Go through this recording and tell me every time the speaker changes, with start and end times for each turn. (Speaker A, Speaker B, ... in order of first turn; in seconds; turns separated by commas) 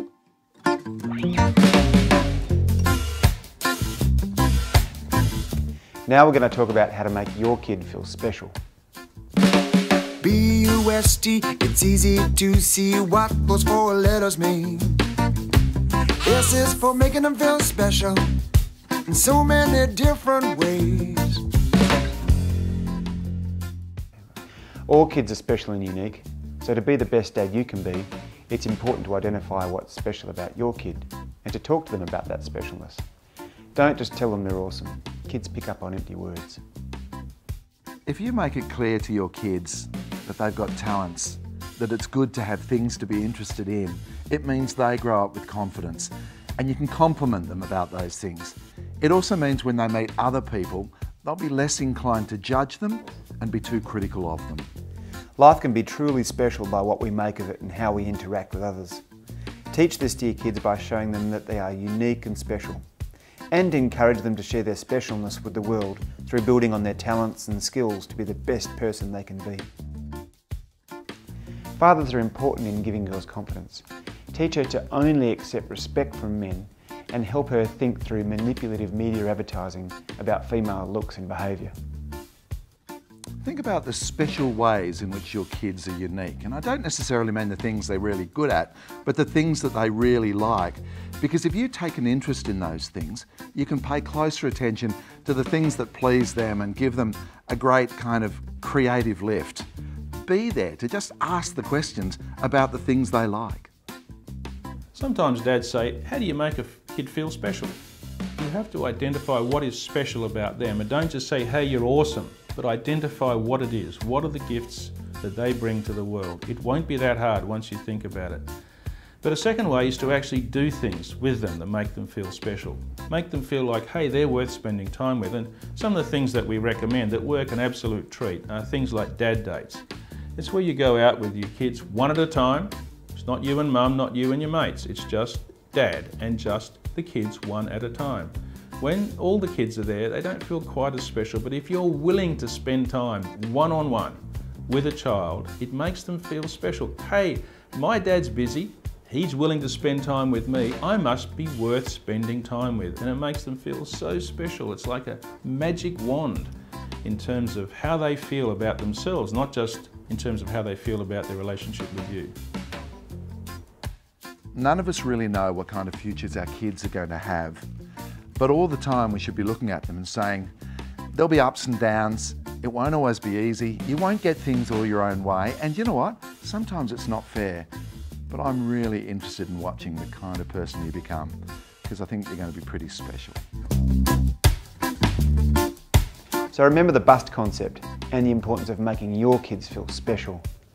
Speaker A: 6.1-8.6, Speaker B: 10.2-15.0, Speaker B: 16.2-18.2, Speaker B: 19.1-21.4, Speaker A: 24.9-33.0, Speaker A: 33.7-36.6, Speaker C: 38.1-54.7, Speaker A: 55.4-59.0, Speaker A: 59.7-62.8, Speaker A: 63.5-69.7, Speaker A: 71.8-81.7, Speaker C: 83.4-99.7, Speaker C: 100.2-103.7, Speaker D: 104.9-107.8, Speaker D: 108.3-118.5, Speaker D: 119.2-129.8, Speaker D: 130.3-156.5, Speaker D: 157.0-162.3, Speaker C: 164.5-167.7, Speaker C: 168.4-170.5, Speaker C: 171.1-177.7, Speaker C: 178.3-183.4, Speaker A: 186.5-190.4